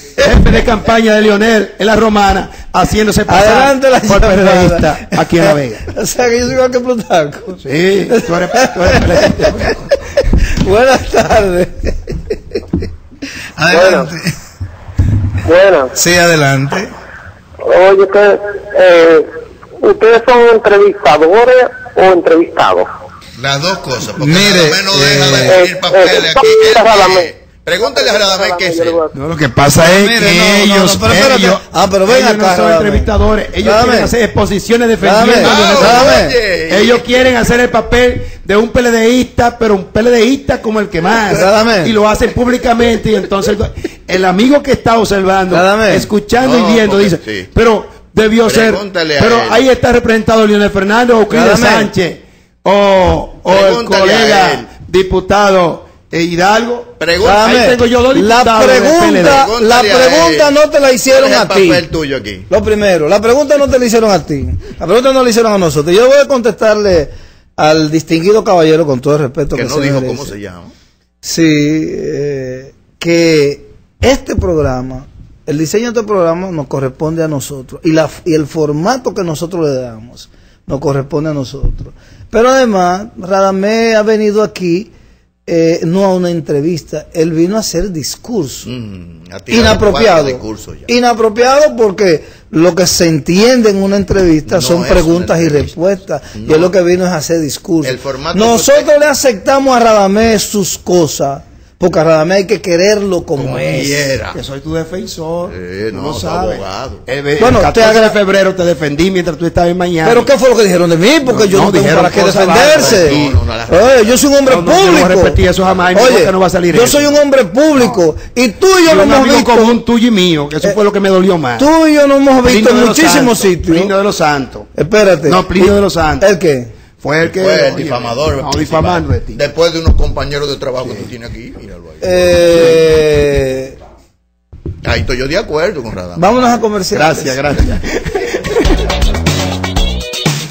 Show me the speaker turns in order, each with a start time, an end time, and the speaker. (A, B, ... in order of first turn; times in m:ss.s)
0:00.2-0:05.8 A
0:03.3-0:09.7 B
0:07.6-0:09.9 A
0:10.6-0:12.4 B
0:13.6-0:14.2 B
0:13.7-0:14.1 C
0:15.4-0:15.9 C
0:15.9-0:16.9 B
0:17.6-0:19.2 C
0:19.8-0:22.9 C
0:23.4-0:29.0 D
0:24.2-0:25.6 B
0:25.4-0:27.3 C
0:27.8-0:29.1 C
0:29.1-0:59.5 A
0:29.7-0:34.1 B
0:35.0-0:36.4 B
0:35.4-0:37.1 D
0:41.3-0:41.9 B
0:45.5-0:46.1 B
0:46.4-0:47.5 D
0:48.5-0:49.6 D
0:51.3-0:51.9 B
0:53.5-0:54.7 D
0:57.0-0:57.6 D
0:57.2-1:01.9 B
0:59.3-1:00.5 D
1:01.1-1:02.5 D
1:02.5-1:10.4 B
1:09.5-1:10.7 D
1:11.2-1:24.9 B
1:25.5-1:28.7 B
1:28.6-1:30.9 D
1:29.5-1:44.1 B
1:34.5-1:35.8 D
1:36.3-1:36.7 D
1:37.8-1:38.9 D
1:43.4-1:44.4 D
1:44.3-1:50.3 A
1:45.5-1:47.0 D
1:47.4-1:48.2 B
1:50.0-1:55.4 B
1:51.2-1:53.4 A
1:52.7-1:54.2 D
1:54.5-1:57.2 A
1:55.9-1:59.8 B
1:57.7-1:58.0 A
1:58.8-2:01.7 A
2:01.6-2:03.9 B
2:02.4-2:04.7 A
2:04.8-2:06.7 B
2:05.3-2:06.3 A
2:07.0-2:09.4 A
2:07.3-2:12.8 D
2:12.0-2:13.8 B
2:14.8-2:16.3 D
2:16.2-2:17.4 B
2:16.9-2:18.5 A